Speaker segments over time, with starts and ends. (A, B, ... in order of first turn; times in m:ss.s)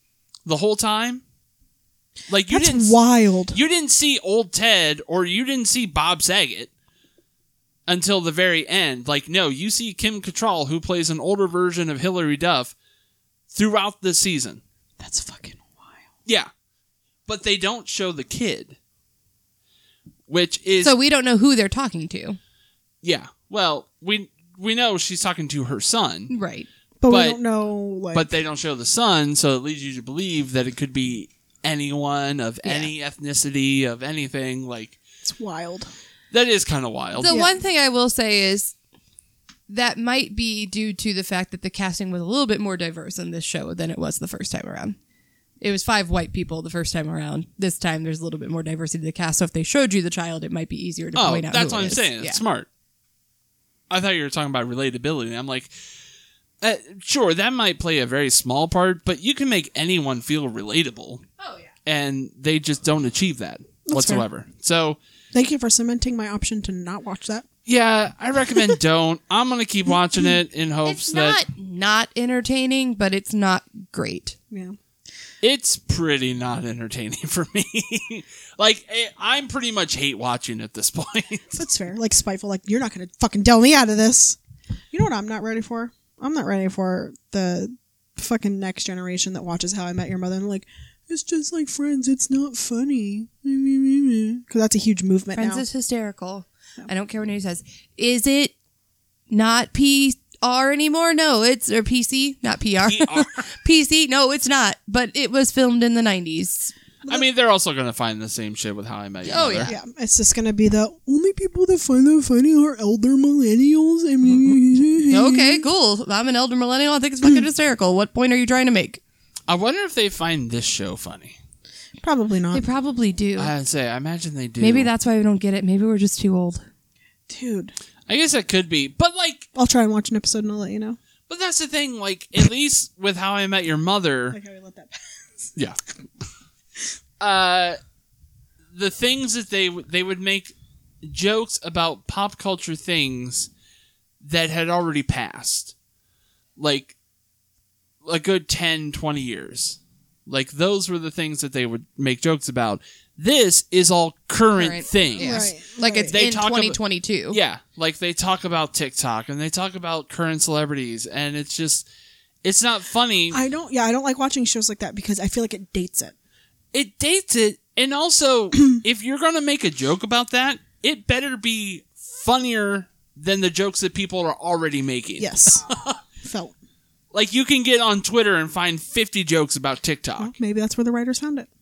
0:00.4-0:01.2 A
0:02.3-0:03.0 A
0:02.5-0:03.6 B
0:03.5-0:06.7 A
0:07.9-0:12.7 A
0:13.5-0:14.6 A
0:15.0-0:16.0 B
0:17.3-0:18.8 A
0:20.3-0:20.9 A
0:20.8-0:22.4 C
0:23.0-0:26.3 A
0:26.3-0:26.7 C
0:27.0-0:28.3 B
0:27.1-0:27.4 A
0:28.1-0:35.0 A
0:32.6-0:32.9 C
0:35.2-0:35.9 B
0:36.3-0:37.4 A
0:37.2-0:38.7 C
0:39.7-0:45.0 C
0:45.6-0:52.4 C
0:51.1-0:52.7 A
0:53.9-0:55.7 A
0:56.6-1:01.2 A
1:01.4-1:01.7 C
1:01.8-1:05.0 A
1:03.8-1:04.2 B
1:05.3-1:07.4 B
1:07.6-1:11.4 A
1:10.8-1:14.4 C
1:14.5-1:14.8 B
1:15.4-1:21.4 A
1:21.5-1:24.4 B
1:24.9-1:35.6 B
1:35.3-1:38.5 C
1:39.3-1:46.7 C
1:42.8-1:43.4 A
1:47.1-1:49.7 A
1:49.2-1:49.7 C
1:49.6-1:55.6 B
1:55.1-1:59.0 C
1:59.5-2:01.4 A
2:02.0-2:02.6 B
2:02.5-2:03.5 C
2:03.4-2:04.9 A
2:04.6-2:06.6 C
2:07.3-2:07.7 B
2:08.1-2:09.5 A
2:09.5-2:11.0 B
2:11.3-2:14.4 A
2:14.3-2:15.5 B
2:17.2-2:17.8 A
2:18.7-2:23.5 A
2:24.2-2:25.7 A
2:26.6-2:27.0 A
2:28.0-2:35.5 A
2:34.6-2:37.4 C
2:35.2-2:36.1 B
2:36.1-2:36.8 A
2:37.3-2:41.8 A
2:42.4-2:43.4 A
2:43.3-2:46.1 B
2:46.7-2:56.0 A
2:55.2-2:55.6 B
2:56.2-2:56.5 B
2:57.1-3:00.3 A
3:00.2-3:01.5 B